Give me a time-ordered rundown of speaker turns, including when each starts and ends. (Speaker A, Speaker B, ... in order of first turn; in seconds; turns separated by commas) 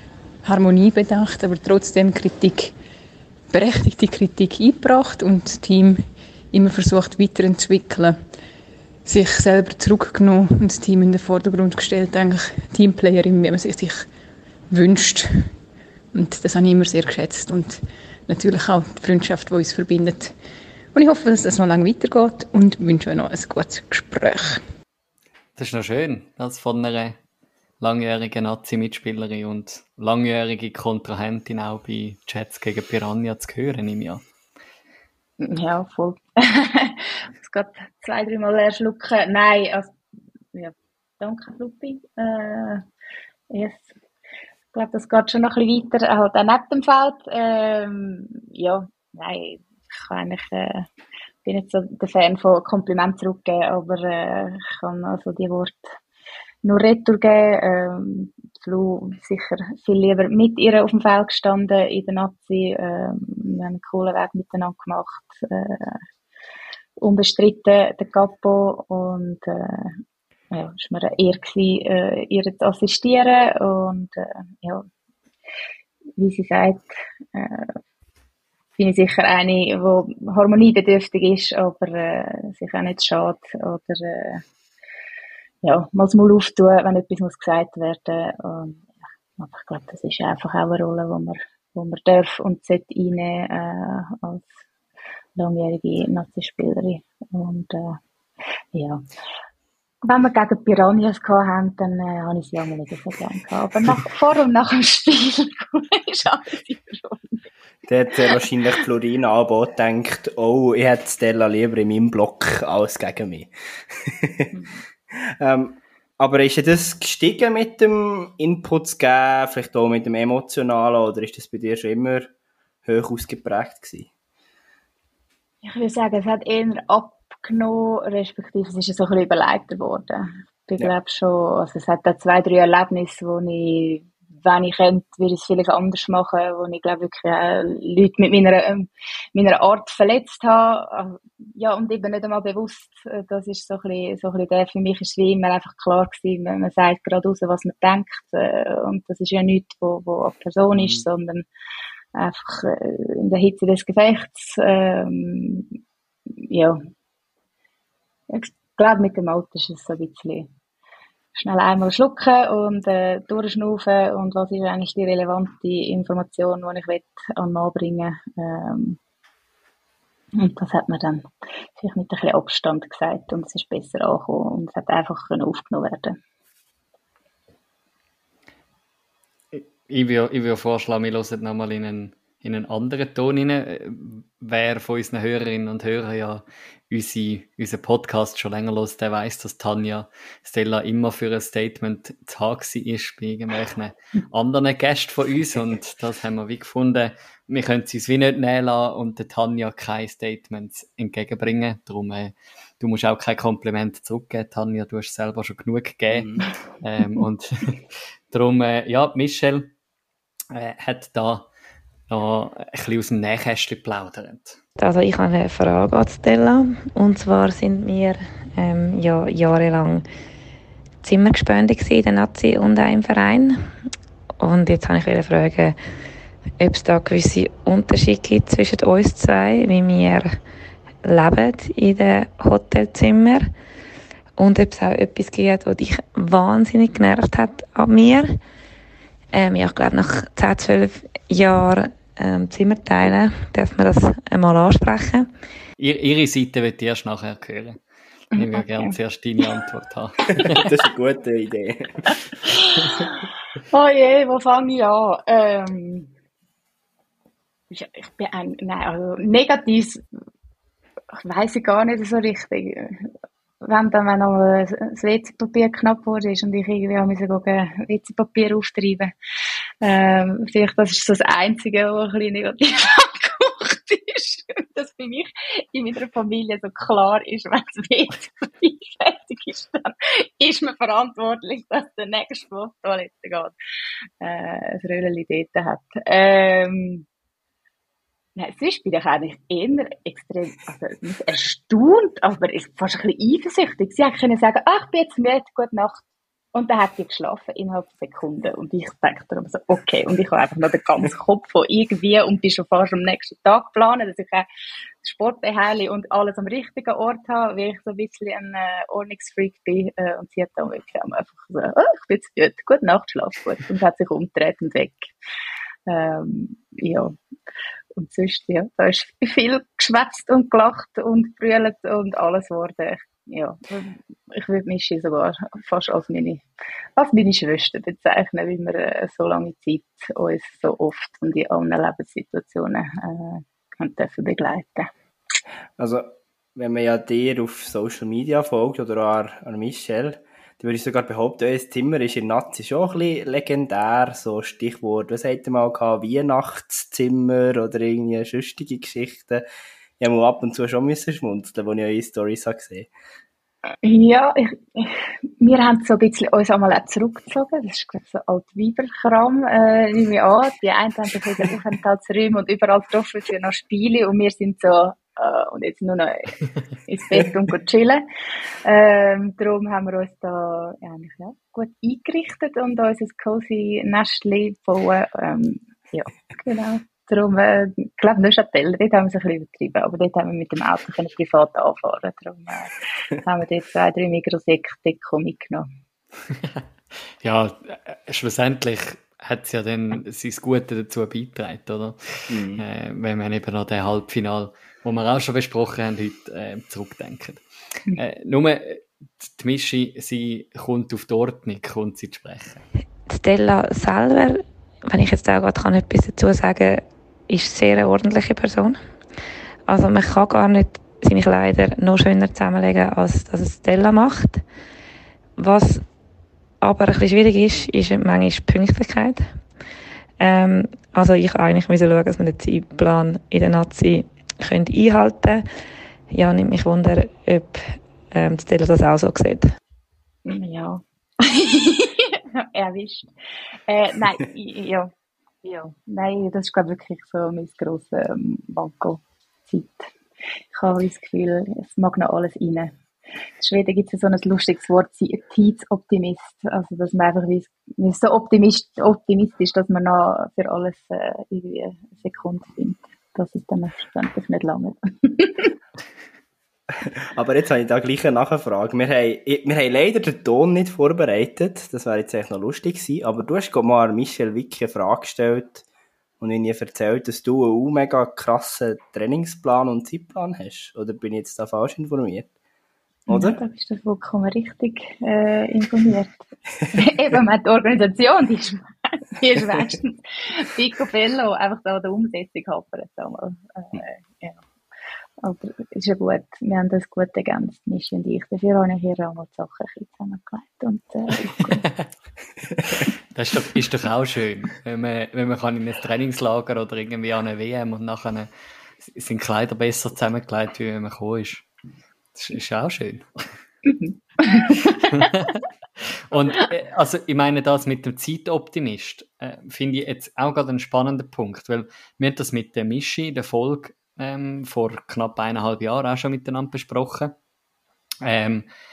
Speaker A: 0.4-2.7, Speaker A: 3.5-8.2, Speaker A: 9.0-14.1, Speaker A: 14.7-15.5, Speaker A: 16.1-20.3, Speaker A: 20.9-24.6, Speaker B: 25.6-27.2, Speaker B: 27.8-34.2, Speaker C: 35.4-39.9, Speaker C: 40.5-42.8, Speaker C: 43.5-43.9, Speaker C: 44.7-50.9, Speaker C: 51.4-55.9, Speaker C: 56.6-66.0, Speaker C: 67.0-69.9, Speaker C: 70.5-74.9, Speaker C: 76.2-77.7, Speaker C: 78.8-84.4, Speaker C: 85.6-94.5, Speaker C: 95.4-98.0, Speaker C: 98.7-99.0, Speaker C: 100.0-107.5, Speaker D: 107.8-114.5, Speaker D: 115.4-122.3, Speaker D: 122.8-124.1, Speaker C: 125.6-151.4, Speaker D: 150.7-151.0, Speaker C: 152.1-155.7, Speaker C: 156.4-156.8, Speaker C: 158.3-160.5, Speaker C: 161.3-169.0, Speaker C: 170.3-176.2, Speaker B: 179.5-209.7, Speaker D: 206.1-206.4, Speaker B: 210.5-211.5, Speaker B: 212.1-214.6, Speaker E: 214.8-220.1, Speaker E: 221.0-223.7, Speaker E: 224.4-225.8, Speaker E: 226.6-230.4, Speaker E: 231.0-233.5, Speaker E: 234.4-238.4, Speaker E: 239.3-245.3, Speaker B: 245.8-247.8, Speaker B: 248.3-250.7, Speaker C: 248.3-248.9, Speaker D: 250.5-251.9, Speaker C: 252.8-253.1, Speaker C: 253.7-256.1, Speaker C: 257.7-260.0, Speaker C: 261.1-263.1, Speaker C: 263.6-269.1, Speaker C: 269.8-283.5, Speaker C: 284.2-287.0, Speaker C: 288.4-296.0, Speaker C: 296.5-304.4, Speaker C: 305.0-315.1, Speaker C: 315.9-317.1, Speaker C: 318.0-326.4, Speaker C: 327.0-334.9, Speaker D: 335.8-349.4, Speaker D: 350.0-352.9, Speaker C: 353.8-368.1, Speaker C: 368.6-385.7, Speaker B: 387.2-402.6, Speaker D: 392.3-392.6, Speaker E: 403.1-408.8, Speaker E: 409.7-414.4, Speaker E: 415.4-415.8, Speaker E: 416.6-419.4, Speaker E: 420.2-425.4, Speaker E: 426.1-429.5, Speaker C: 430.2-433.1, Speaker C: 433.7-434.9, Speaker C: 435.4-439.9, Speaker C: 440.5-442.8, Speaker C: 443.4-455.5, Speaker D: 456.8-465.6, Speaker D: 466.2-472.3, Speaker D: 473.1-473.4, Speaker C: 473.1-484.4, Speaker C: 485.2-491.6, Speaker B: 493.1-498.3, Speaker B: 498.8-501.5, Speaker B: 502.1-503.2, Speaker C: 503.6-504.9, Speaker B: 504.8-517.1, Speaker B: 518.0-518.5